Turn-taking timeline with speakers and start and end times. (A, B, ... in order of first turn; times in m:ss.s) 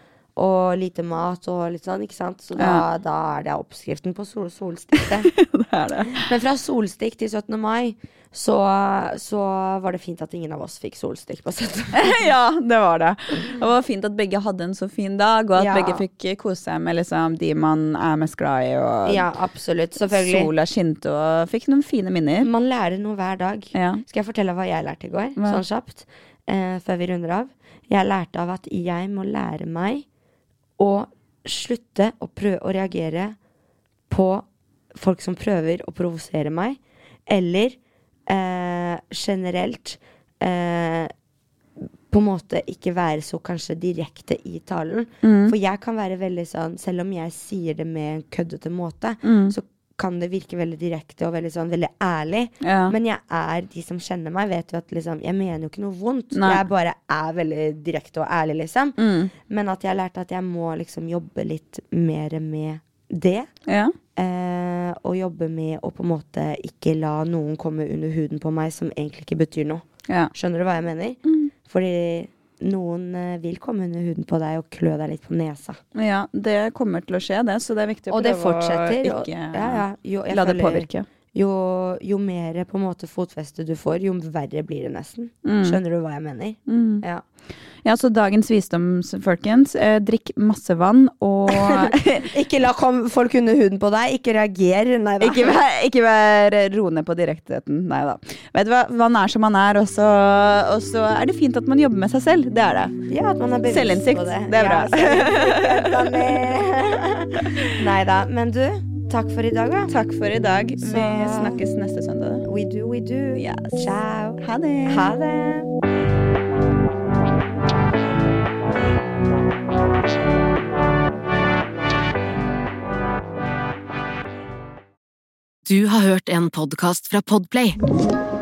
0:00.4-0:05.3 A
0:02.6-0:02.8 B
0:05.3-0:06.3 B
0:06.1-0:12.3 A
0:11.9-0:19.3 B
0:15.5-0:16.0 A
0:19.0-0:20.5 A
0:20.0-0:22.5 B
0:22.4-0:30.0 A
0:23.7-0:24.0 B
0:25.4-0:25.6 B
0:30.8-0:33.4 A
0:34.1-0:41.1 A
0:42.1-1:03.5 A
0:45.2-0:45.5 B
0:49.2-0:49.5 B
0:52.6-0:52.9 B
0:56.3-0:56.6 B
0:59.0-0:59.3 B
1:03.7-1:04.0 B
1:04.2-1:15.8 A
1:10.1-1:10.3 B
1:15.9-1:21.0 B
1:18.1-1:27.2 A
1:25.4-1:25.8 B
1:26.7-1:27.0 B
1:27.8-1:32.3 B
1:31.5-1:35.6 A
1:35.2-1:43.0 B
1:43.1-1:49.9 A
1:43.6-1:46.6 B
1:49.9-1:52.4 B
1:50.8-1:51.6 A
1:52.4-1:55.7 A
1:53.3-1:55.2 B
2:05.6-2:07.8 C